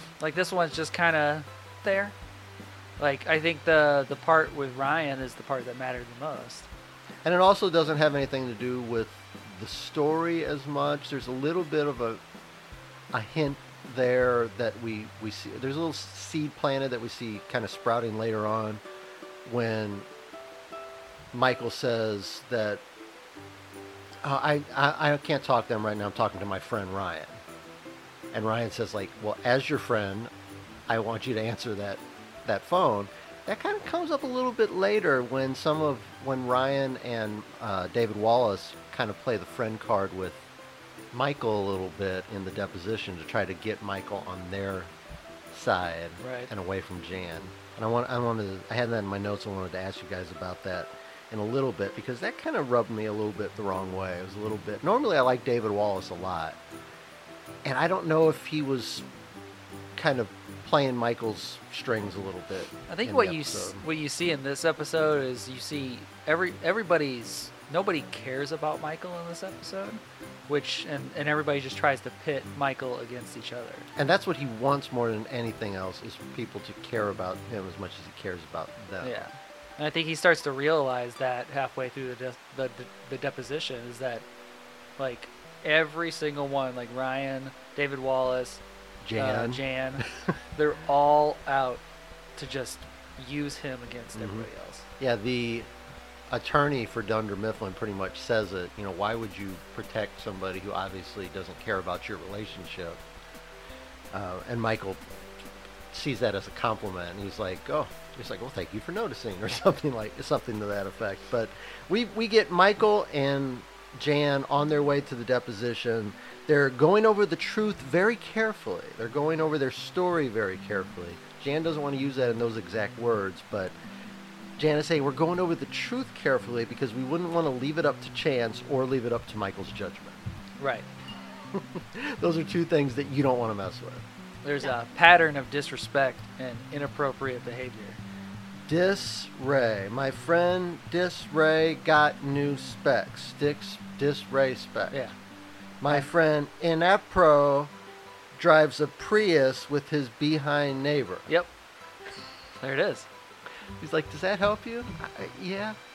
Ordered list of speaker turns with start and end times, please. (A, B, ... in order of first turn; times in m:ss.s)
0:00.2-0:02.1 A
0:03.0-0:06.7 A
0:07.2-0:12.2 B
0:13.1-0:18.8 B
0:19.4-0:20.1 B
0:21.3-0:22.8 B
0:24.2-0:27.4 B
0:28.3-0:30.3 B
0:30.9-0:40.4 B
0:41.1-0:44.9 B
0:45.5-0:56.6 B
0:46.2-0:46.5 A
0:57.6-0:59.0 B
1:00.0-1:03.8 B
1:02.9-1:13.9 A
1:14.0-1:19.3 B
1:19.0-1:24.2 A
1:25.0-1:28.6 A
1:29.0-1:30.1 B
1:29.2-1:31.8 A
1:32.4-1:34.9 A
1:34.2-1:34.5 B
1:35.0-1:35.7 B
1:36.3-1:43.0 B
1:44.1-1:45.0 B
1:45.9-2:03.8 B
2:04.6-2:10.2 B
2:10.6-2:10.9 A
2:11.5-2:14.0 B
2:14.4-2:18.0 A
2:18.7-2:25.0 B
2:25.8-2:27.7 B
2:28.4-2:31.3 B
2:32.6-2:33.1 A
2:33.8-2:35.8 B